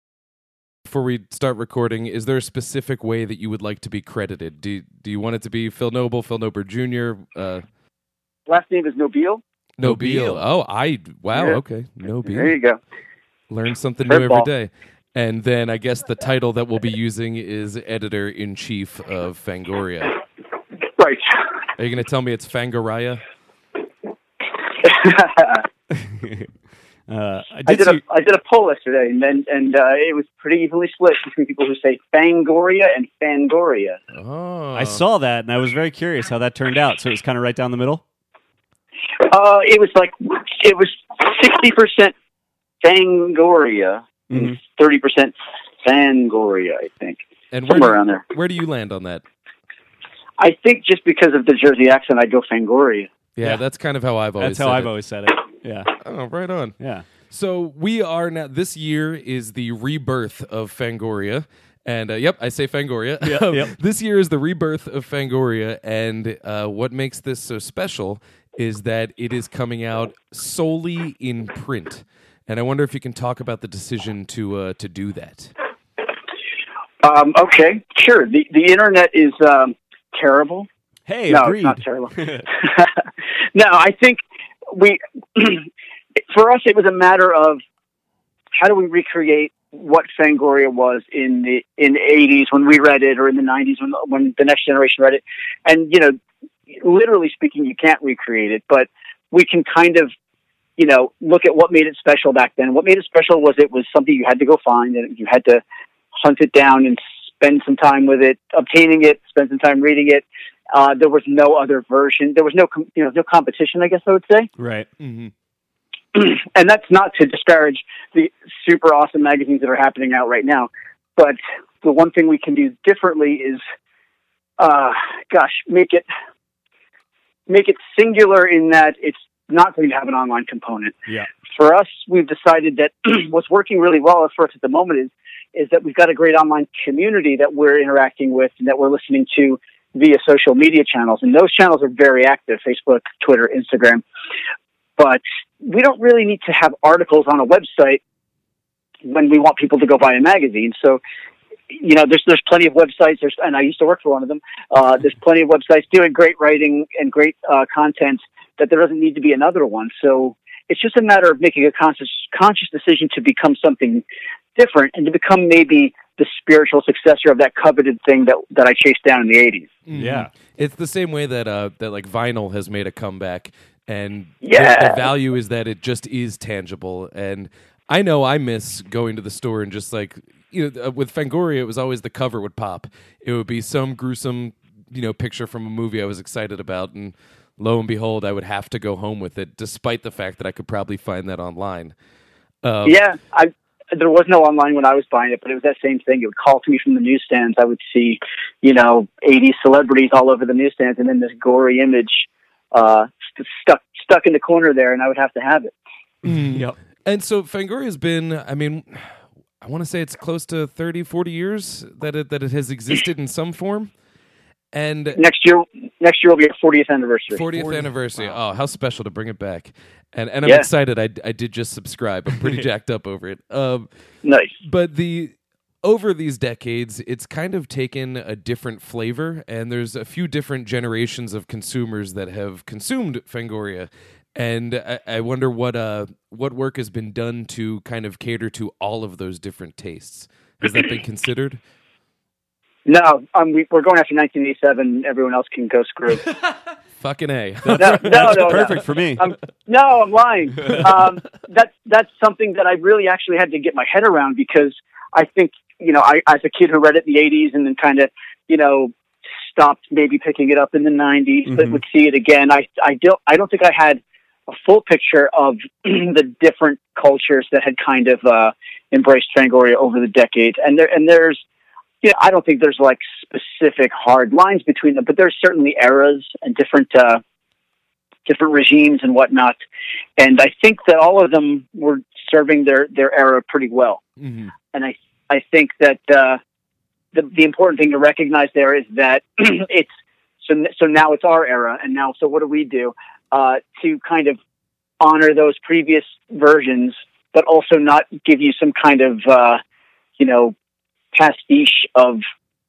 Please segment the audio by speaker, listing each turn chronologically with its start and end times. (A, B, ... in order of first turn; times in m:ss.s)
0:00.8-0:07.6 A
0:08.5-0:09.4 B
0:09.8-0:12.5 A
0:09.8-0:10.4 C
0:11.3-0:11.6 B
0:12.2-0:12.8 B
0:13.5-0:20.2 A
0:14.1-0:14.5 B
0:21.0-0:21.2 B
0:21.8-0:23.2 A
0:24.8-0:25.6 B
0:25.9-0:26.5 C
0:27.1-0:28.0 C
0:27.7-0:34.0 B
0:34.1-0:35.0 A
0:34.7-0:38.0 C
0:39.2-0:42.1 B
0:42.8-0:48.2 B
0:44.3-0:44.6 C
0:47.5-0:49.2 A
0:50.4-0:53.1 B
0:53.4-0:54.9 A
0:54.4-0:55.9 C
0:56.0-0:56.7 A
0:56.8-0:57.0 C
0:57.3-1:15.5 A
1:03.2-1:03.7 C
1:17.0-1:20.7 B
1:21.1-1:22.4 C
1:21.3-1:25.7 B
1:26.3-1:27.6 B
1:28.5-1:36.2 B
1:36.7-1:40.1 B
1:40.8-1:45.6 B
1:46.1-1:54.5 B
1:54.6-1:54.9 C
1:55.0-1:55.3 A
1:56.1-2:03.6 B
2:04.6-2:06.0 B
2:07.5-2:11.0 B
2:11.5-2:24.0 B
2:25.0-2:28.0 B
2:29.0-2:31.0 B
2:31.7-2:44.0 B
2:44.6-2:49.7 B
2:49.8-3:11.9 A
2:49.9-2:50.3 C
2:54.4-2:55.0 B
3:12.6-3:13.0 A
3:12.8-3:25.7 B
3:26.2-3:33.9 A
3:26.5-3:26.7 C
3:34.7-3:35.2 A
3:35.2-3:37.4 B
3:37.3-3:43.9 A
3:37.5-3:38.4 C
3:44.2-3:44.5 B
3:44.6-4:01.6 A
4:02.8-4:06.2 B
4:07.0-4:08.8 A
4:07.6-4:09.3 C
4:07.8-4:18.9 B
4:19.5-4:31.4 B
4:21.5-4:21.8 C
4:32.0-4:37.2 B
4:38.2-4:39.6 B
4:40.2-4:44.0 B
4:44.2-4:44.5 A
4:44.7-4:46.4 B
4:47.1-4:49.9 B
4:50.4-4:54.4 B
4:55.0-4:59.6 B
5:00.2-5:00.5 B
5:01.1-5:02.2 B